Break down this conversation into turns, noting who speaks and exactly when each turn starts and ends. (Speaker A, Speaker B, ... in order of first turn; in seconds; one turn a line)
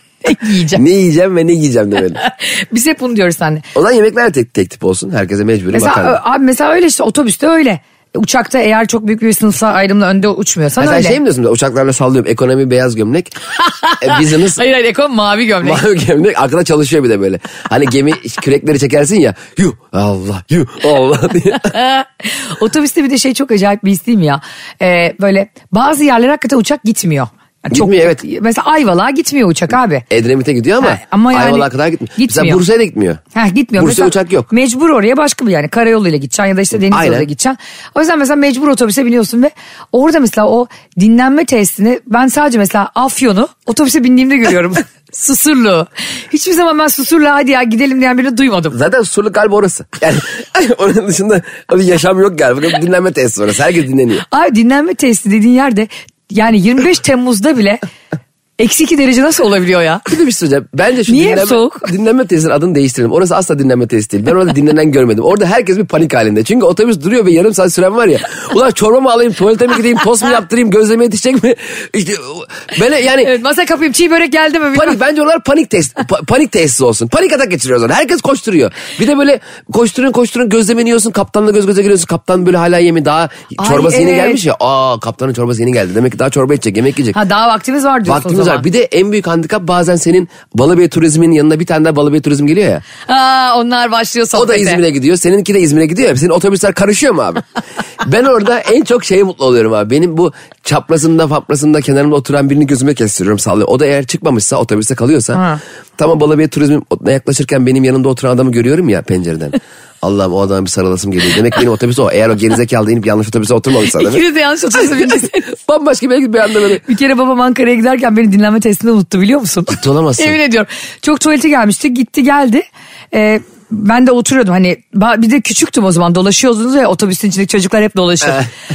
Speaker A: 0.2-0.8
Speaker B: 0.8-2.2
Speaker A: 2.2-3.6
Speaker B: 3.7-6.2
Speaker A: 5.7-11.2
Speaker B: 10.8-13.3
Speaker A: 13.6-15.8
Speaker B: 14.0-14.6
Speaker B: 15.6-21.7
Speaker A: 21.7-30.0
Speaker B: 27.7-28.2
Speaker B: 30.1-33.2
Speaker A: 30.8-32.6
Speaker A: 33.3-48.8
Speaker B: 33.8-34.5
Speaker B: 36.8-37.3
Speaker B: 48.7-54.2
Speaker A: 54.2-57.8
Speaker A: 58.6-60.0
Speaker B: 60.1-73.3
Speaker A: 61.1-61.9
Speaker A: 73.2-75.0
Speaker B: 74.7-87.2
Speaker A: 83.6-84.4
Speaker A: 87.1-88.6
Speaker B: 88.0-92.8
Speaker A: 93.0-94.8
Speaker B: 94.3-97.4
Speaker B: 98.0-105.4
Speaker A: 105.3-105.6
Speaker B: 106.0-114.2
Speaker A: 113.9-115.5
Speaker B: 115.5-116.8
Speaker A: 116.8-128.4
Speaker B: 119.7-120.4